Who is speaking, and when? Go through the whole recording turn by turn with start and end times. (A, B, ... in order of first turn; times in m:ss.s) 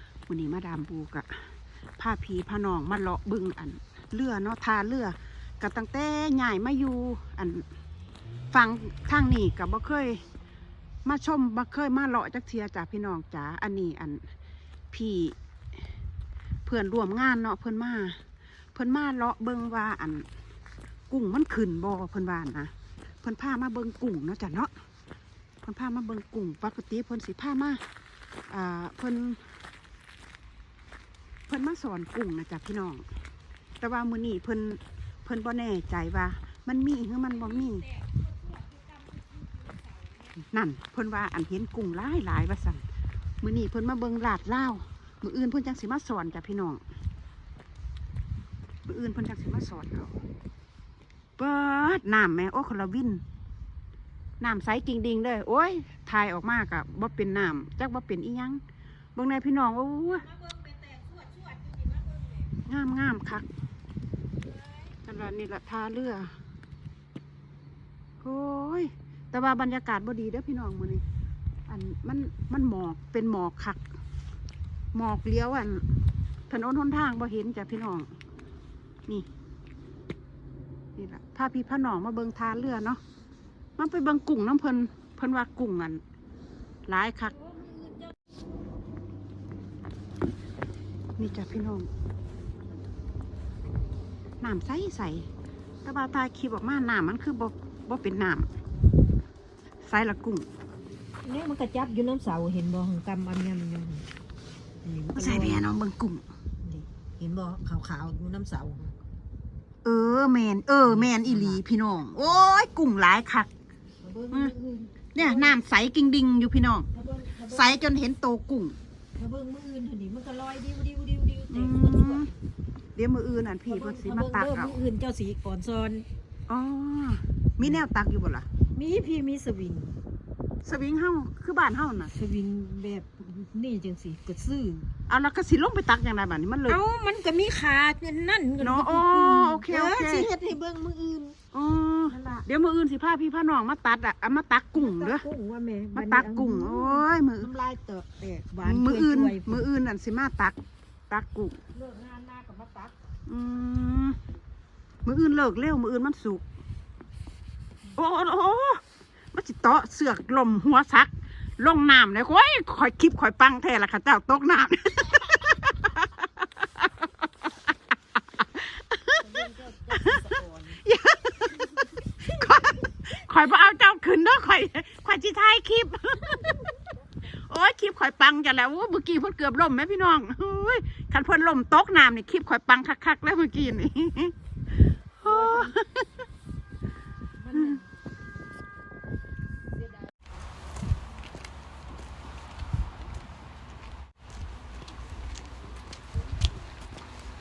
0:00.3-0:07.6 A
0:08.5-0:10.2 A
0:11.0-0:14.2 A
0:14.9-0:15.4 A
0:16.7-0:18.2 A
0:18.7-0:20.3 A
0:21.1-0:24.7 A
0:25.6-0:27.8 A
0:28.5-0:29.4 A
0:31.5-0:33.0 A
0:33.8-0:37.9 A
0:37.4-0:40.3 B
0:40.4-0:42.8 A
0:43.4-0:46.8 A
0:48.9-0:50.2 A
0:51.4-0:53.2 A
0:54.4-0:58.6 A
0:59.2-1:00.3 A
1:00.2-1:02.6 B
1:02.7-1:03.5 A
1:05.0-1:06.3 A
1:08.2-1:11.0 A
1:11.7-1:13.8 A
1:14.9-1:15.8 A
1:16.5-1:18.1 A
1:21.0-1:23.0 A
1:23.8-1:26.0 A
1:26.9-1:27.4 A
1:27.5-1:28.1 B
1:31.2-1:31.9 A
1:34.4-1:35.3 A
1:35.8-1:38.5 A
1:39.8-1:40.5 A
1:41.2-1:44.0 B
1:44.8-1:45.7 B
1:45.2-1:46.2 A
1:46.6-1:48.9 B
1:49.8-1:53.5 A
1:50.8-1:51.6 B
1:54.0-1:55.6 B
1:55.1-1:56.9 A
1:56.9-1:57.8 B
1:57.5-1:58.8 A
1:59.2-2:02.4 B
2:01.5-2:02.3 A
2:03.0-2:04.8 A
2:03.7-2:06.1 B
2:06.5-2:08.5 A
2:08.8-2:10.0 B
2:10.6-2:12.1 A
2:12.1-2:14.9 B
2:15.1-2:16.8 A
2:16.7-2:21.4 B
2:18.6-2:20.3 A
2:21.5-2:25.2 A
2:22.1-2:22.5 B
2:24.8-2:29.6 B
2:26.0-2:27.5 A
2:28.6-2:30.6 A
2:31.1-2:31.6 A
2:31.7-2:33.0 B
2:33.3-2:34.2 A
2:35.0-2:36.4 A
2:38.0-2:38.8 A
2:39.3-2:46.8 A
2:48.6-2:49.2 A
2:49.2-2:50.8 B
2:50.8-2:56.6 A
2:56.4-2:56.9 B
2:57.5-3:04.3 A
3:05.2-3:05.8 B
3:05.2-3:06.1 A
3:07.4-3:07.8 B